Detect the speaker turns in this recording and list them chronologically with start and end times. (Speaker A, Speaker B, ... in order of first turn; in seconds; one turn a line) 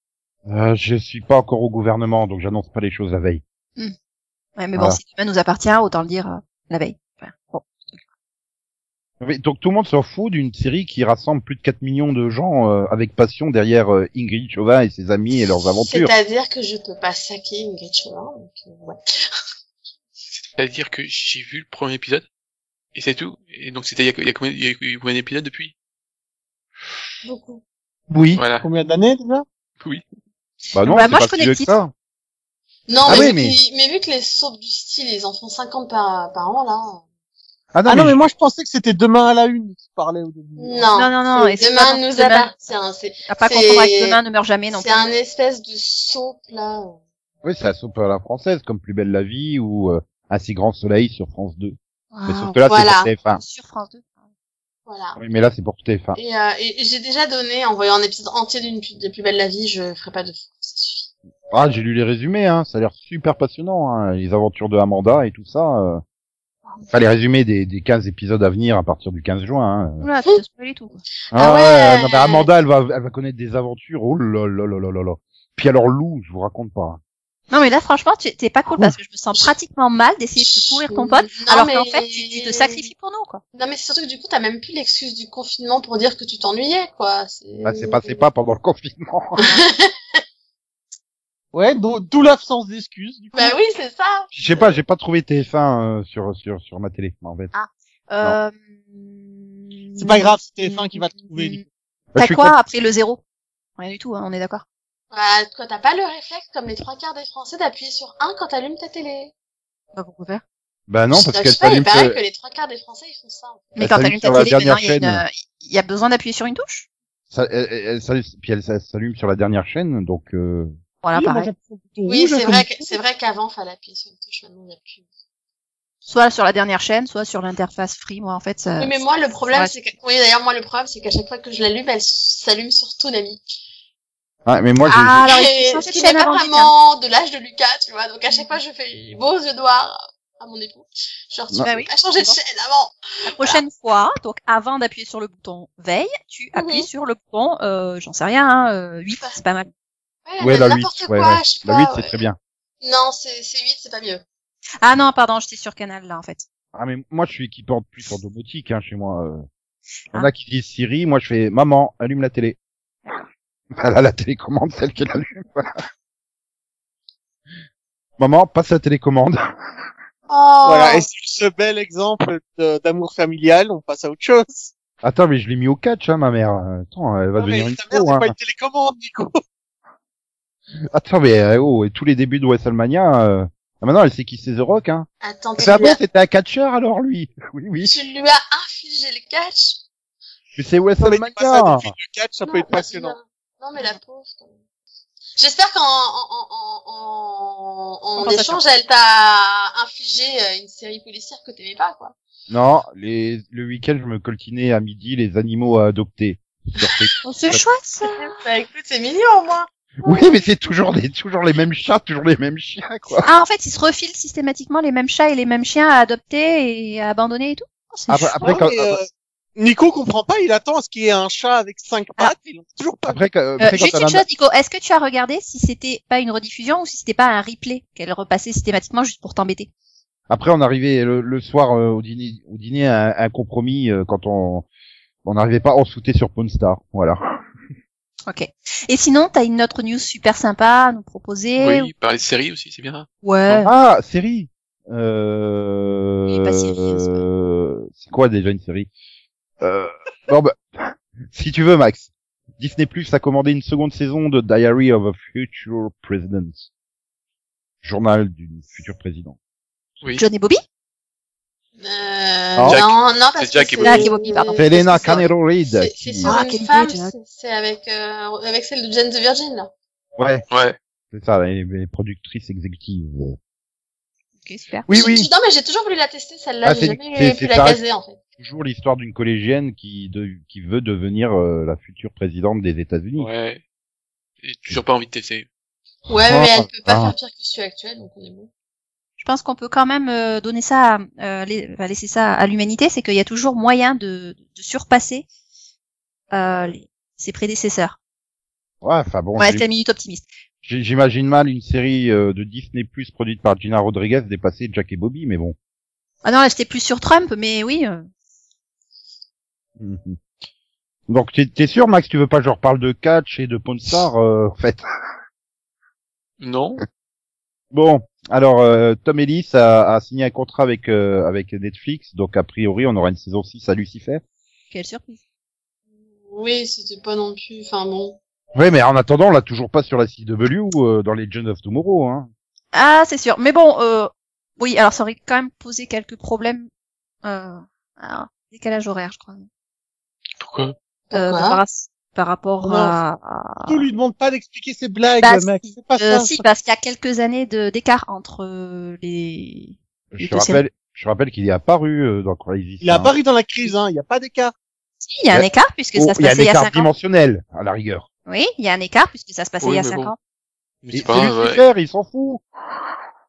Speaker A: 0.5-3.4
Speaker B: 4.6-8.0
Speaker A: 9.2-16.1
Speaker C: 15.9-19.0
Speaker D: 20.3-22.2
Speaker D: 22.9-25.7
Speaker C: 27.2-27.6
Speaker A: 28.1-28.4
Speaker D: 28.3-28.7
Speaker E: 28.6-29.4
Speaker A: 30.7-31.9
Speaker B: 30.9-31.7
Speaker C: 32.9-37.0
Speaker A: 33.0-33.6
Speaker A: 37.7-38.2
Speaker E: 37.9-40.9
Speaker C: 40.6-44.2
Speaker B: 41.0-42.7
Speaker B: 43.3-45.0
Speaker C: 44.7-47.0
Speaker A: 47.4-53.4
Speaker B: 52.1-52.6
Speaker C: 52.7-53.1
Speaker B: 53.3-54.0
Speaker C: 54.9-55.2
Speaker A: 55.1-56.2
Speaker C: 56.1-61.1
Speaker A: 61.5-66.0
Speaker A: 66.9-70.0
Speaker B: 70.0-71.0
Speaker C: 71.3-72.5
Speaker A: 71.3-77.0
Speaker B: 77.5-83.4
Speaker C: 80.4-82.9
Speaker C: 83.5-88.2
Speaker A: 87.6-89.6
Speaker C: 89.4-90.2
Speaker E: 91.5-93.5
Speaker C: 93.3-94.3
Speaker A: 94.3-97.5
Speaker B: 97.5-101.6
Speaker E: 100.0-101.7
Speaker A: 102.1-102.5
Speaker B: 102.2-103.2
Speaker B: 103.8-104.6
Speaker C: 105.1-109.3
Speaker B: 109.9-110.4
Speaker A: 110.9-112.2
Speaker C: 111.1-113.7
Speaker B: 113.7-116.9
Speaker A: 113.8-115.2
Speaker A: 117.3-120.7
Speaker B: 121.0-121.5
Speaker E: 121.1-123.0
Speaker C: 122.1-125.0
Speaker B: 126.1-129.0
Speaker C: 128.8-133.4
Speaker B: 129.5-129.8
Speaker A: 134.4-135.2
Speaker B: 134.8-136.7
Speaker C: 135.2-143.6
Speaker B: 141.6-142.3
Speaker B: 143.2-149.7
Speaker C: 146.5-146.9
Speaker C: 150.2-152.1
Speaker A: 150.4-152.4
Speaker C: 152.8-154.2
Speaker B: 154.8-156.4
Speaker A: 156.7-159.5
Speaker A: 160.1-162.6
Speaker A: 163.7-165.7
Speaker A: 168.2-169.4
Speaker C: 170.3-171.0
Speaker E: 170.6-174.7
Speaker A: 175.0-178.3
Speaker E: 177.3-179.4
Speaker A: 180.9-187.9
Speaker C: 185.2-186.0
Speaker C: 187.8-189.8
Speaker A: 190.5-191.9
Speaker E: 191.0-193.2
Speaker C: 192.4-194.5
Speaker C: 195.4-202.1
Speaker B: 198.2-198.6
Speaker A: 202.5-207.6
Speaker C: 206.8-207.1
Speaker B: 207.2-208.2
Speaker C: 208.0-210.4
Speaker A: 210.0-213.3
Speaker B: 213.2-218.5
Speaker A: 218.1-219.0
Speaker E: 218.4-223.2
Speaker A: 223.1-224.2
Speaker B: 223.6-229.7
Speaker A: 230.3-234.7
Speaker A: 235.2-237.2
Speaker B: 238.2-241.9
Speaker D: 241.6-243.1
Speaker B: 243.2-243.7
Speaker A: 243.5-248.9
Speaker B: 246.3-247.2
Speaker A: 249.6-256.6
Speaker A: 257.8-259.4
Speaker B: 260.2-260.6
Speaker C: 261.8-269.7
Speaker D: 262.6-264.1
Speaker B: 263.8-264.6
Speaker A: 264.5-266.3
Speaker B: 266.2-267.1
Speaker A: 270.2-270.4
Speaker D: 270.5-270.8
Speaker A: 271.1-273.4
Speaker B: 274.4-274.9
Speaker A: 274.9-275.3
Speaker C: 274.9-278.2
Speaker A: 276.6-277.8
Speaker A: 278.4-283.3
Speaker D: 283.2-283.6
Speaker D: 284.4-285.4
Speaker C: 286.1-288.5
Speaker A: 286.3-287.1
Speaker B: 289.2-295.2
Speaker B: 296.3-298.0
Speaker A: 298.8-299.6
Speaker B: 299.4-300.2
Speaker A: 300.6-305.6
Speaker B: 306.2-308.1
Speaker A: 309.8-310.2
Speaker A: 311.1-314.8
Speaker D: 316.4-316.8
Speaker A: 317.7-324.2
Speaker B: 324.7-325.2
Speaker C: 326.2-328.2
Speaker A: 328.5-332.3
Speaker B: 332.7-336.7
Speaker B: 337.2-339.5
Speaker D: 340.4-340.7
Speaker C: 341.1-341.6
Speaker B: 341.1-343.8
Speaker E: 342.6-343.0
Speaker E: 343.6-346.4
Speaker B: 345.2-350.6
Speaker A: 350.1-353.1
Speaker E: 352.8-354.5
Speaker B: 355.0-356.9
Speaker A: 355.3-358.1
Speaker B: 358.3-360.1
Speaker D: 359.6-360.1
Speaker D: 360.8-361.6
Speaker A: 360.9-362.4